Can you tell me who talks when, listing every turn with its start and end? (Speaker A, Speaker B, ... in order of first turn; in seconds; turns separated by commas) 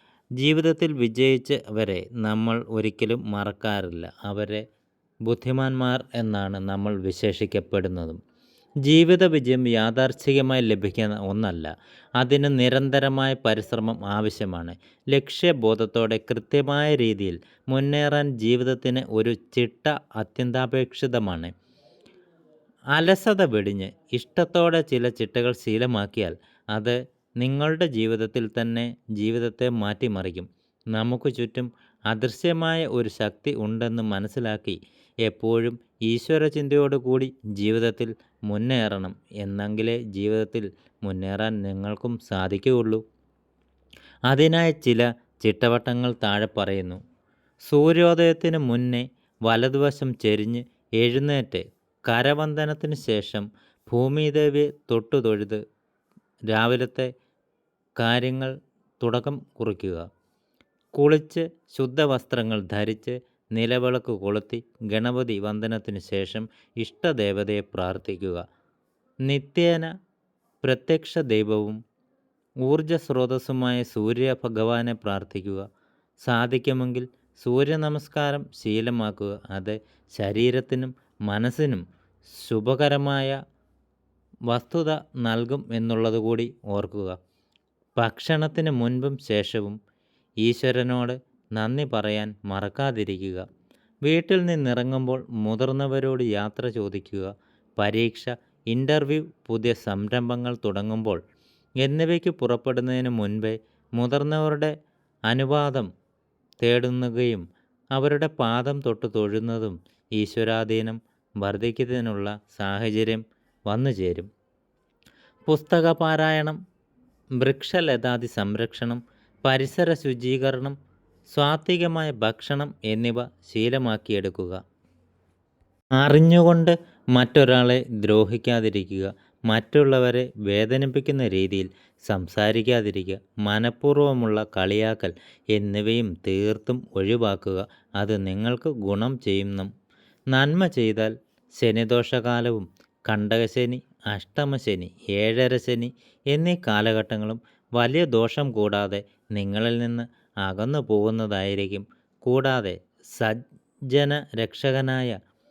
Speaker A: 0.4-4.6, Speaker A: 5.3-8.2, Speaker A: 8.8-21.5, Speaker A: 22.9-43.0, Speaker A: 44.3-47.0, Speaker A: 47.7-55.6, Speaker A: 56.5-57.1, Speaker A: 58.0-60.1, Speaker A: 60.9-68.4, Speaker A: 69.3-69.9, Speaker A: 70.6-71.8, Speaker A: 72.6-75.7, Speaker A: 76.2-81.8, Speaker A: 82.4-83.3, Speaker A: 84.5-87.2, Speaker A: 88.0-89.8, Speaker A: 90.4-93.4, Speaker A: 94.0-101.2, Speaker A: 101.8-104.7, Speaker A: 105.3-105.9, Speaker A: 106.6-114.3, Speaker A: 115.5-116.6, Speaker A: 117.4-120.8, Speaker A: 121.3-124.6, Speaker A: 126.0-139.7, Speaker A: 140.3-155.2